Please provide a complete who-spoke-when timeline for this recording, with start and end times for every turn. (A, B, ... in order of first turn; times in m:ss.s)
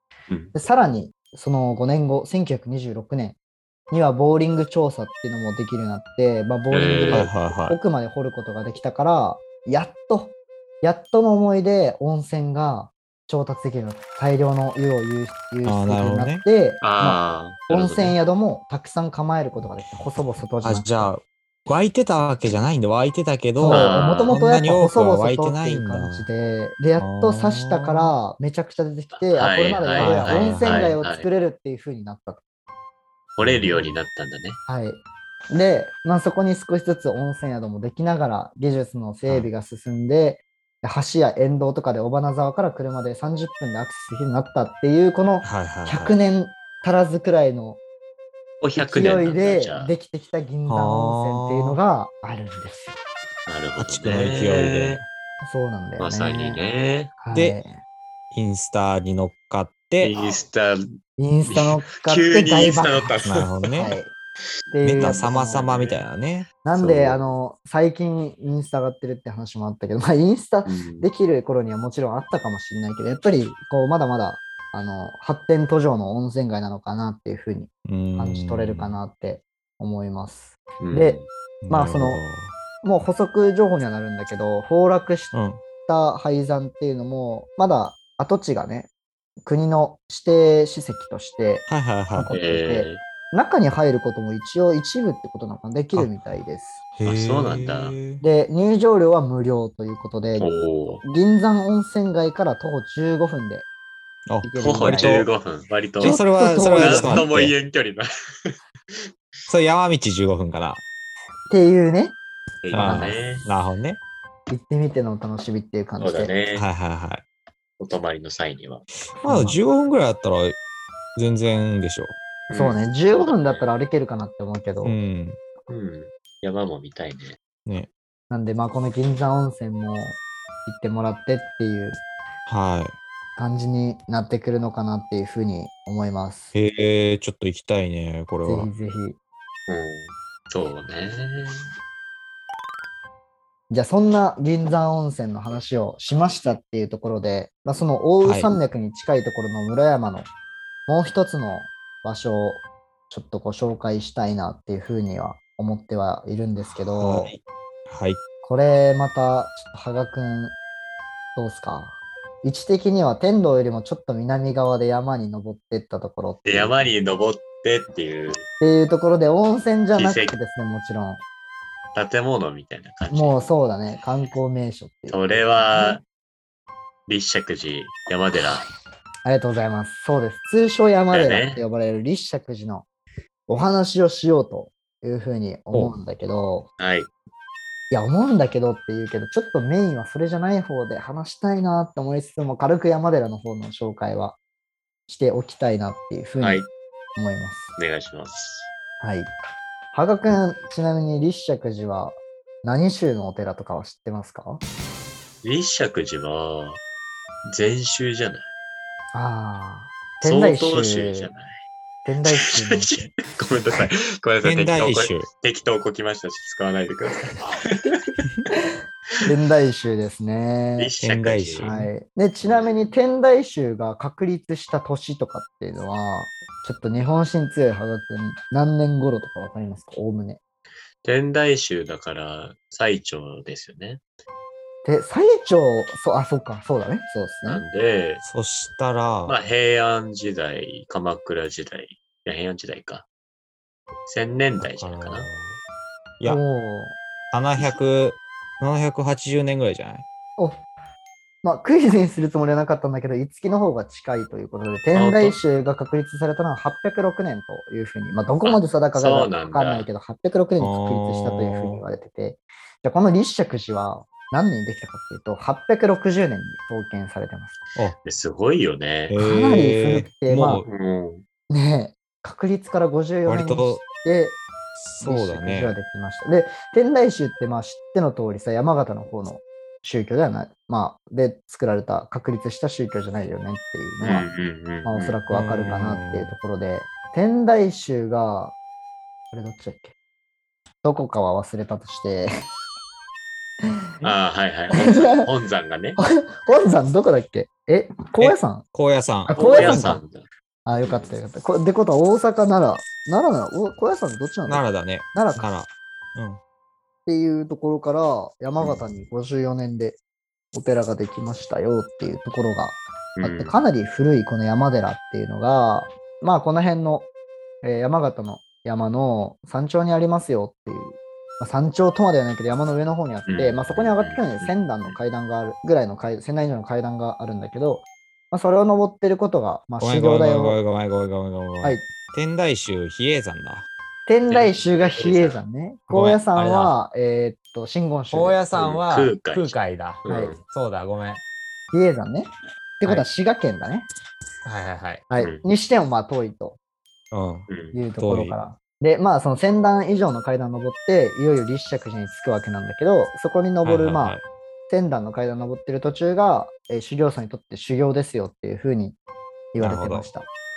0:00.3-0:00.6 A
0:00.5-0:03.4 B
0:03.9-0:21.1 B
0:06.7-0:07.3 A
0:07.1-0:07.8 C
0:15.6-0:16.4 C
0:16.8-0:18.2 A
0:20.6-0:26.3 C
0:23.6-0:32.4 B
0:23.7-0:24.4 A
0:27.0-0:28.1 C
0:29.1-0:31.3 A
0:30.0-0:31.0 C
0:33.4-0:34.6 A
0:33.4-0:34.0 C
0:34.7-0:47.8 B
0:45.4-0:46.2 C
0:48.6-0:49.9 A
0:48.8-0:53.0 B
0:50.7-0:51.8 C
0:53.5-0:55.0 A
0:53.8-0:55.1 C
0:55.4-0:56.6 B
0:56.0-0:57.1 A
0:57.2-0:57.8 B
0:57.3-0:57.6 C
0:58.3-1:00.1 C
1:00.0-1:00.8 A
1:01.2-1:03.2 B
1:01.5-1:03.8 A
1:03.2-1:04.0 C
1:03.8-1:04.1 B
1:04.7-1:05.8 B
1:04.8-1:06.5 C
1:05.0-1:06.0 A
1:06.6-1:22.2 B
1:06.7-1:07.2 A
1:10.6-1:11.1 A
1:17.8-1:19.0 C
1:20.8-1:21.3 A
1:21.6-1:22.6 C
1:22.8-1:25.3 B
1:25.3-1:25.6 C
1:25.9-1:28.9 B
1:29.4-1:36.8 B
1:31.7-1:32.3 C
1:32.3-1:33.0 A
1:37.0-1:38.2 C
1:37.0-1:38.0 A
1:38.2-1:40.5 B
1:40.4-1:41.0 A
1:41.0-1:43.6 B
1:44.3-1:45.3 C
1:44.4-1:45.2 B
1:44.6-1:49.0 A
1:46.0-1:47.3 B
1:46.0-1:47.5 C
1:49.5-1:50.8 C
1:51.5-1:52.2 B
1:52.6-1:53.4 A
1:52.7-1:54.0 C
1:52.8-1:53.2 B
1:54.5-1:56.3 B
1:56.0-1:56.7 A
1:56.5-1:57.2 C
1:57.8-1:58.8 A
1:59.2-1:59.6 B
1:59.2-2:00.6 C
2:01.2-2:02.2 C
2:02.5-2:03.7 A
2:02.5-2:05.0 B
2:04.8-2:05.4 C
2:05.7-2:07.4 A
2:08.3-2:12.0 B
2:12.4-2:13.0 C
2:13.4-2:16.5 B
2:16.5-2:18.7 C
2:18.4-2:19.2 B
2:19.7-2:21.7 A
2:23.7-2:30.3 B
2:28.2-2:28.5 C
2:30.9-2:37.3 B
2:37.0-2:38.2 C
2:38.4-2:40.6 B
2:41.4-2:46.9 B
2:46.4-2:48.4 A
2:48.6-2:51.2 B
2:50.0-2:50.4 A
2:51.9-2:53.5 A
2:53.1-2:56.0 B
2:55.1-2:56.0 A
2:57.1-2:58.6 A
2:59.2-3:02.9 B
3:01.1-3:01.6 A
3:03.5-3:06.7 B
3:06.8-3:07.1 A
3:07.9-3:14.4 B
3:15.1-3:17.8 B
3:16.4-3:16.7 A
3:17.8-3:18.7 A
3:19.0-3:19.3 B
3:19.9-3:24.6 B
3:25.4-3:26.8 A
3:27.4-3:28.4 A
3:29.1-3:31.3 B
3:30.2-3:31.6 A
3:32.0-3:33.1 B
3:32.3-3:37.8 A
3:34.4-3:35.3 C
3:37.8-3:40.9 B
3:40.8-3:41.8 A
3:41.0-3:41.9 C
3:41.6-3:50.4 B
3:42.4-3:42.9 A
3:51.0-3:54.0 A
3:54.8-3:57.6 B
3:57.4-3:58.2 A
3:58.2-3:59.4 C
3:59.3-4:03.1 A
4:04.1-4:05.3 A
4:04.6-4:05.6 C
4:06.2-4:07.0 B
4:07.3-4:10.0 C
4:10.4-4:10.6 B
4:11.4-4:27.6 B
4:14.9-4:15.4 A
4:18.4-4:19.9 A
4:20.6-4:21.8 C
4:28.0-4:29.1 A
4:29.1-4:30.7 C
4:29.2-4:30.6 B
4:30.6-4:31.2 A
4:31.5-4:34.4 B
4:33.3-4:33.8 C
4:34.8-4:35.8 C
4:35.0-4:44.3 B
4:44.0-4:45.2 A
4:44.8-4:48.6 B
4:45.3-4:46.4 C
4:49.3-4:49.9 B
4:50.8-4:52.3 B
4:54.0-4:56.0 A
4:54.8-4:55.2 B
4:56.0-4:58.6 B
4:58.2-5:00.0 C
4:59.3-5:00.0 B
4:59.3-5:00.3 A
5:00.6-5:05.5 B
5:00.8-5:01.1 A
5:04.4-5:06.4 C
5:07.1-5:10.0 B
5:10.5-5:17.1 B
5:13.2-5:13.6 A
5:17.6-5:30.6 B
5:23.3-5:25.0 A
5:29.8-5:33.7 C
5:34.1-5:38.4 B
5:34.3-5:35.4 A
5:35.9-5:36.7 C
5:38.1-5:41.2 C
5:38.5-5:40.4 A
5:40.1-5:40.4 B
5:41.7-5:43.9 B
5:44.4-5:45.0 C
5:45.1-5:46.6 B
5:45.2-5:45.4 A
5:47.1-5:47.5 C
5:47.5-5:47.8 A
5:47.7-5:54.2 B
5:48.0-5:48.4 C
5:53.6-5:54.2 C
5:54.7-5:59.0 B
5:59.5-6:00.3 B
5:59.6-6:00.1 C